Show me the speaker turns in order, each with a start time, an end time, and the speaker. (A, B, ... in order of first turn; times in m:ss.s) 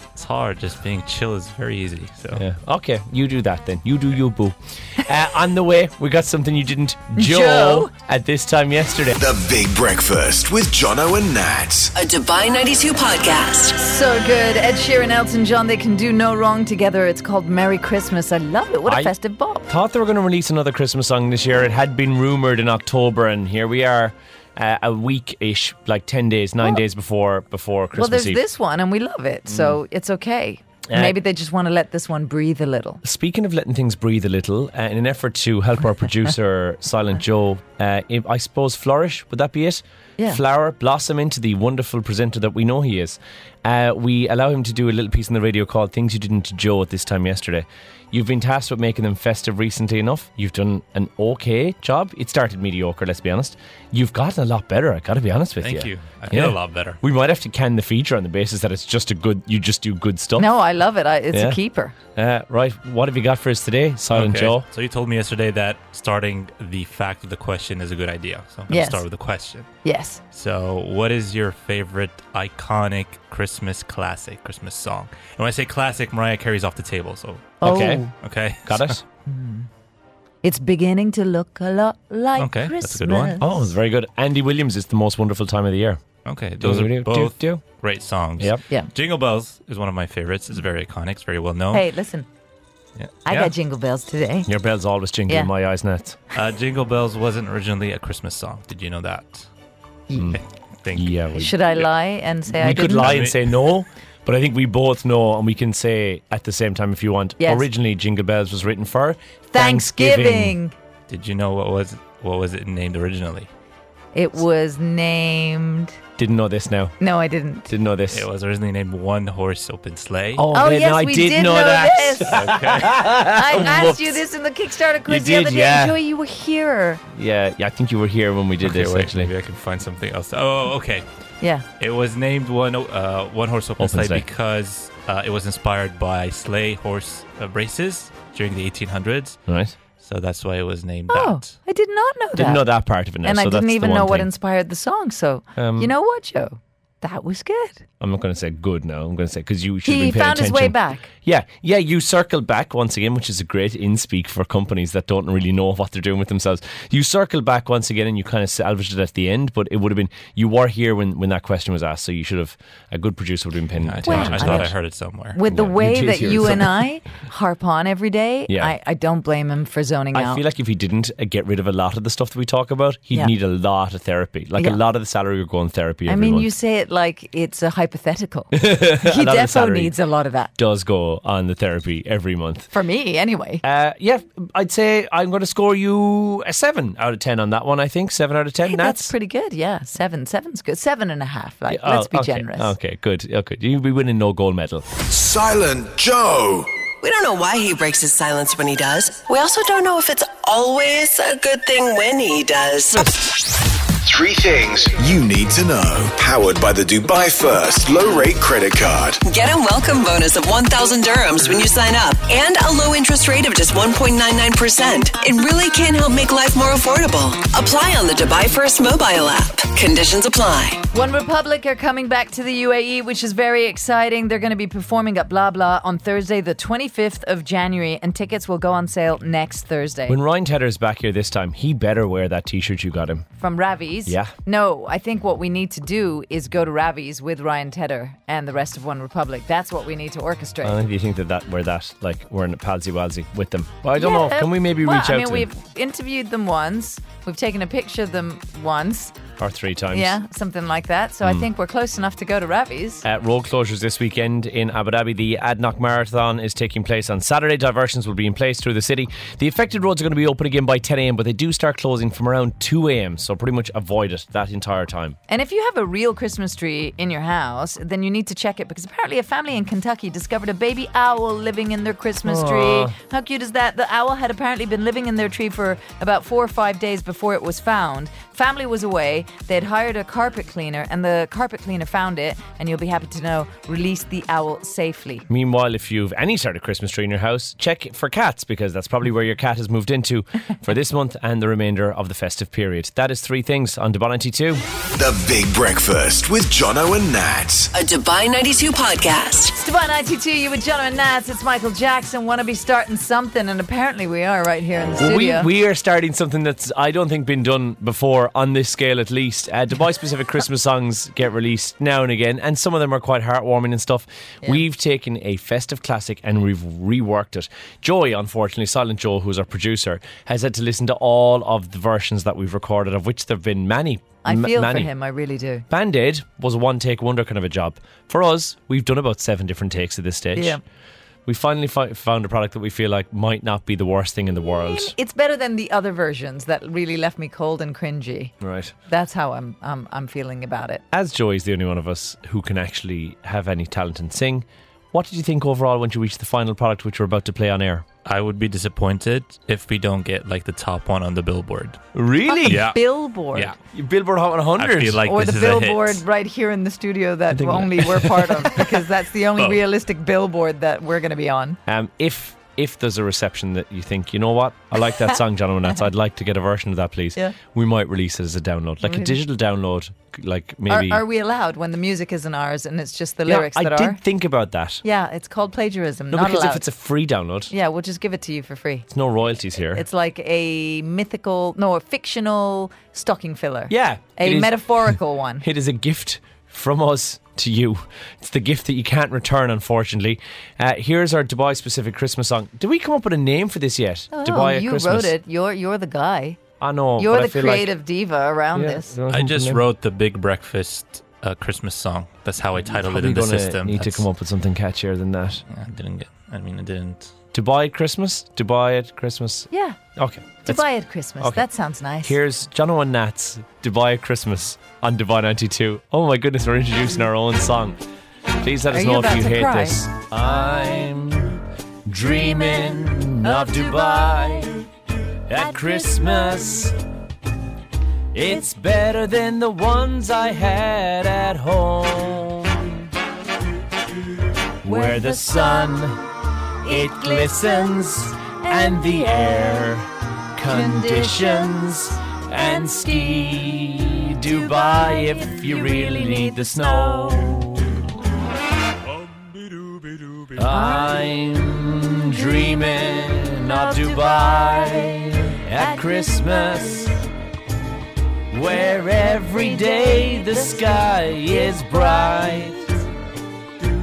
0:00.2-0:02.4 A
0:02.3-0:09.2 B
0:07.1-0:07.9 C
0:09.2-0:11.9 D
0:11.9-0:13.8 E
0:13.8-0:19.7 C
0:18.8-0:19.1 B
0:19.7-0:28.4 B
0:27.9-0:33.0 C
0:29.5-0:29.8 B
0:30.9-0:31.2 B
0:33.0-1:00.5 B
0:55.6-0:57.0 A
1:00.4-1:01.9 C
1:01.3-1:01.6 B
1:02.1-1:04.6 B
1:04.1-1:09.7 A
1:08.7-1:09.0 C
1:09.8-1:10.2 C
1:10.3-1:17.6 A
1:17.6-1:18.1 C
1:17.6-1:18.1 B
1:18.2-1:19.0 A
1:18.6-1:19.0 B
1:19.2-1:19.7 C
1:20.4-1:23.7 C
1:22.4-1:23.4 A
1:23.4-1:26.0 B
1:26.2-1:31.8 A
1:26.6-1:27.6 B
1:31.7-1:32.3 C
1:33.0-1:33.5 A
1:33.2-1:34.5 C
1:34.4-1:36.2 B
1:36.3-1:39.5 A
1:40.1-1:40.4 C
1:40.1-1:40.4 B
1:40.3-1:41.2 A
1:40.9-1:41.6 B
1:41.3-1:43.2 C
1:42.5-1:50.6 B
1:42.8-1:43.5 A
1:47.4-1:47.7 C
1:49.5-1:50.7 C
1:51.1-1:53.5 A
1:54.1-1:56.0 C
1:56.2-1:56.9 B
1:57.0-1:57.7 C
1:57.7-1:58.2 B
1:58.1-2:00.4 A
2:00.3-2:04.2 B
2:00.5-2:02.4 C
2:02.3-2:03.0 A
2:03.3-2:07.0 C
2:05.0-2:06.0 B
2:07.1-2:09.3 B
2:08.6-2:11.0 A
2:11.8-2:19.4 A
2:13.8-2:14.2 B
2:19.5-2:19.7 B
2:20.0-2:21.5 A
2:21.1-2:22.6 C
2:22.4-2:24.3 B
2:23.2-2:27.8 C
2:25.6-2:25.9 B
2:28.0-2:44.7 B
2:29.8-2:31.1 C
2:43.8-2:45.4 A
2:44.0-2:44.7 C
2:45.3-2:50.4 C
2:45.4-2:46.9 B
2:48.5-2:48.7 B
2:50.1-2:56.5 B
2:56.1-3:00.5 C
2:58.5-2:59.9 B
3:00.6-3:02.7 B
3:02.7-3:03.6 C
3:03.6-3:09.1 B
3:08.6-3:12.7 C
3:11.7-3:14.8 B
3:15.1-3:16.7 D
3:17.0-3:23.2 E
3:24.0-3:29.2 D
3:29.2-3:40.8 E
3:40.9-3:50.2 C
3:50.1-3:53.3 B
3:53.4-4:00.8 C
3:54.0-3:54.3 B
4:00.6-4:05.5 B
4:03.9-4:09.2 C
4:09.4-4:10.2 B
4:09.9-4:13.0 C
4:13.0-4:25.2 B
4:25.3-4:45.2 C
4:32.2-4:32.9 B
4:45.3-4:54.6 B
4:54.9-4:57.7 D
4:57.7-4:59.6 E
4:59.6-5:05.5 C
5:05.0-5:24.9 B
5:24.2-5:25.6 C
5:25.7-5:30.6 B
5:30.3-5:30.6 C
5:31.2-5:34.9 B
5:34.4-5:38.3 C
5:38.4-5:38.7 B
5:38.9-5:40.8 C
5:40.9-5:47.8 B
5:48.0-5:51.8 A
5:51.9-5:52.7 B
5:52.3-5:53.5 C
5:52.4-5:52.8 A
5:53.7-5:55.0 B
5:54.6-5:56.0 A
5:55.0-6:01.6 C
5:57.3-5:58.8 B
6:01.7-6:11.0 B
6:08.8-6:09.2 C
6:10.7-6:14.0 C
6:13.2-6:14.8 B
6:14.8-6:16.7 C
6:16.1-6:17.5 B
6:17.5-6:18.9 C
6:18.9-6:19.8 B
6:19.7-6:25.4 C
6:23.7-6:35.1 B
6:34.1-6:36.4 C
6:36.6-6:37.7 B
6:37.0-6:38.9 C
6:38.5-6:39.6 B
6:39.1-6:44.0 A
6:42.6-6:45.4 B
6:45.5-6:47.1 A
6:47.3-6:50.7 B
6:49.5-6:49.8 C
6:50.4-6:52.2 C
6:51.2-6:51.4 B
6:52.0-6:57.8 B
6:58.4-7:04.7 B
6:58.7-6:59.8 C
7:03.2-7:04.5 C
7:05.3-7:06.8 B
7:05.4-7:06.6 C
7:08.1-7:12.9 B
7:14.6-7:16.1 B
7:14.6-7:15.9 C
7:16.6-7:19.7 C
7:16.6-7:27.8 B
7:20.5-7:27.4 C
7:30.3-7:37.0 B
7:30.5-7:31.0 C
7:32.2-7:36.9 C
7:38.3-7:42.8 B
7:38.5-7:42.8 C